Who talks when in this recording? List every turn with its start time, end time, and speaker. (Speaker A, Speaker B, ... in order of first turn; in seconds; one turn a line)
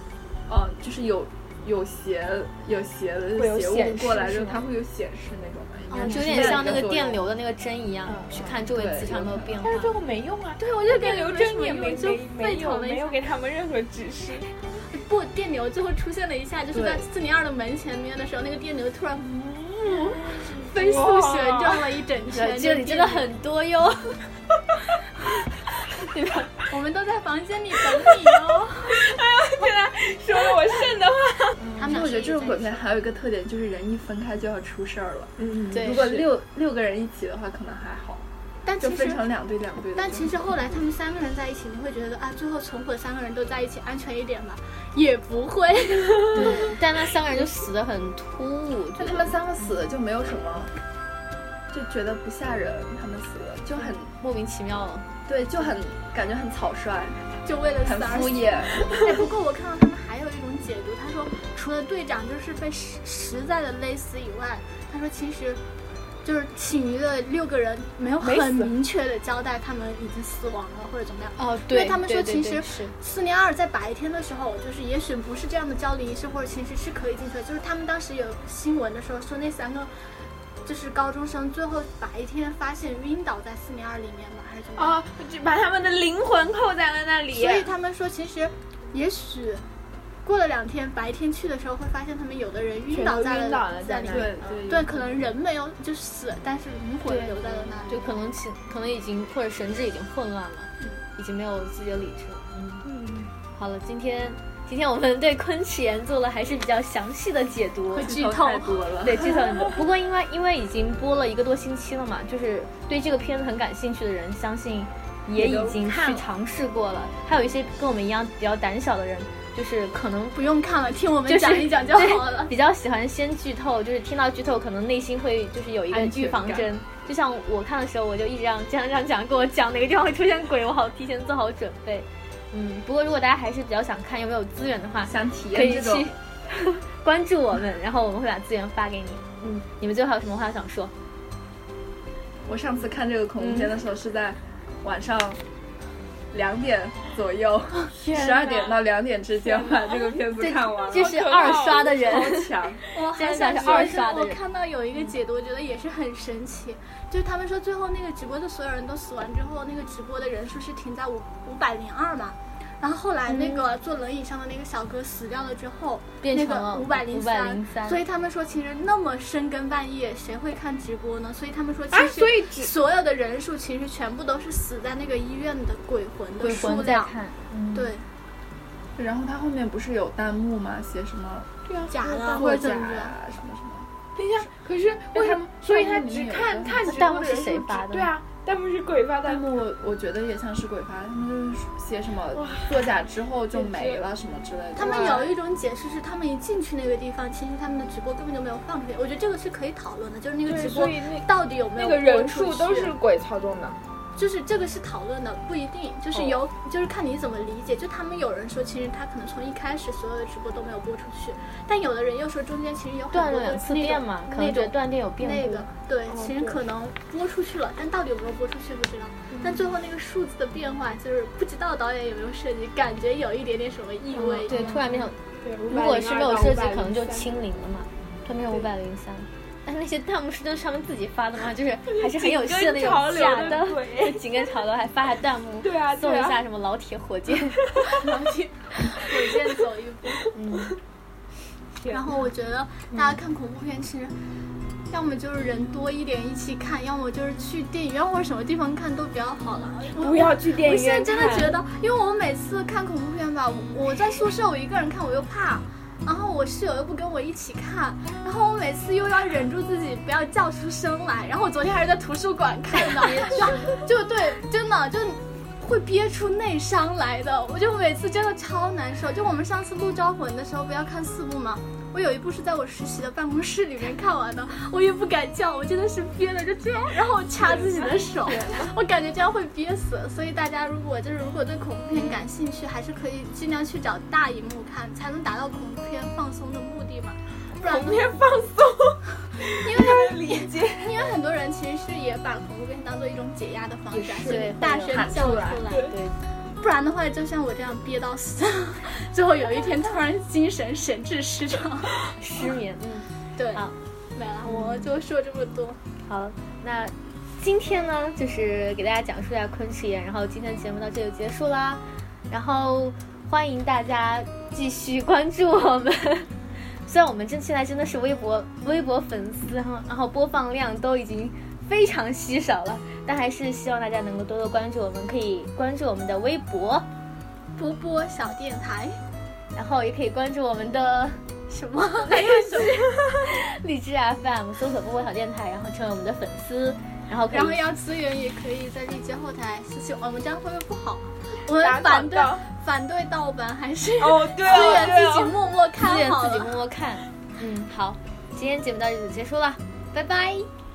Speaker A: 0.5-7.2
Speaker B: 3.4-4.6
Speaker C: 5.9-6.7
Speaker D: 6.0-9.9
Speaker B: 8.1-8.6
Speaker A: 8.6-9.6
Speaker B: 9.6-14.5
Speaker C: 10.6-13.2
Speaker C: 14.9-23.3
Speaker A: 16.7-17.1
Speaker B: 19.8-21.8
Speaker D: 22.3-24.2
Speaker D: 26.0-26.5
Speaker C: 26.7-29.1
Speaker B: 28.9-31.6
Speaker D: 31.6-32.1
Speaker C: 31.8-32.9
Speaker A: 31.8-38.2
Speaker B: 35.4-36.3
Speaker D: 35.7-36.1
Speaker C: 38.6-39.2
Speaker A: 38.8-40.6
Speaker C: 39.9-46.8
Speaker D: 46.3-49.7
Speaker A: 49.0-50.7
Speaker A: 51.7-54.1
Speaker D: 53.9-55.1
Speaker A: 55.2-57.3
Speaker C: 57.4-65.6
Speaker A: 57.8-59.3
Speaker C: 66.2-79.9
Speaker B: 68.2-68.7
Speaker D: 71.4-72.9
Speaker C: 80.6-85.0
Speaker B: 84.8-87.7
Speaker C: 87.3-89.6
Speaker C: 90.2-98.2
Speaker B: 92.9-94.7
Speaker A: 94.1-95.2
Speaker D: 97.0-102.8
Speaker B: 102.8-103.3
Speaker D: 103.5-108.2
Speaker C: 107.9-108.9
Speaker A: 108.0-109.4
Speaker D: 109.0-120.4
Speaker B: 109.2-109.8
Speaker A: 115.3-116.3
Speaker C: 120.3-122.5
Speaker D: 121.3-140.9
Speaker A: 125.9-126.7
Speaker A: 135.0-136.1
Speaker A: 142.4-145.4
Speaker D: 143.4-143.7
Speaker A: 146.3-152.8
Speaker B: 147.9-148.8
Speaker D: 148.0-148.3
Speaker B: 149.4-150.2
Speaker D: 150.4-154.4
Speaker B: 150.8-152.0
Speaker C: 152.9-177.1
Speaker B: 153.6-154.0
Speaker D: 163.3-163.6
Speaker D: 166.2-168.0
Speaker B: 171.9-172.7
Speaker D: 176.4-177.9
Speaker C: 177.7-178.0
Speaker A: 179.0-181.5
Speaker B: 181.7-182.6
Speaker C: 181.9-183.1
Speaker A: 182.3-183.9
Speaker B: 184.2-189.4
Speaker A: 185.2-187.0
Speaker D: 186.8-188.1
Speaker A: 189.2-195.2
Speaker B: 192.3-192.9
Speaker B: 193.5-194.0
Speaker C: 194.8-202.9
Speaker B: 194.8-195.3
Speaker B: 200.4-203.8
Speaker C: 204.2-224.7
Speaker D: 213.1-215.7
Speaker B: 216.1-216.6
Speaker B: 219.3-219.7
Speaker B: 224.1-227.3
Speaker D: 224.4-225.2
Speaker D: 225.7-237.8
Speaker B: 231.8-234.5
Speaker B: 235.6-236.4
Speaker C: 237.8-240.3
Speaker B: 239.0-239.4
Speaker B: 240.2-240.7
Speaker D: 240.3-240.8
Speaker B: 241.8-242.2
Speaker C: 241.9-244.1
Speaker C: 244.9-288.2
Speaker B: 250.0-251.6
Speaker B: 277.4-277.9
Speaker A: 278.3-278.7
Speaker B: 287.6-291.0
Speaker C: 289.6-295.9
Speaker B: 294.0-294.5
Speaker D: 294.2-295.1
Speaker A: 294.2-295.7
Speaker B: 295.7-296.0
Speaker D: 295.9-296.2
Speaker C: 296.6-302.0
Speaker D: 302.2-303.7
Speaker C: 303.4-305.8
Speaker D: 304.5-304.9
Speaker D: 306.1-316.3
Speaker D: 316.9-326.9
Speaker C: 327.6-329.0
Speaker D: 329.5-331.2
Speaker C: 331.5-332.8
Speaker D: 333.2-337.6
Speaker C: 337.3-346.6
Speaker B: 341.6-342.4
Speaker B: 344.0-345.4
Speaker D: 344.4-345.0
Speaker D: 345.8-350.5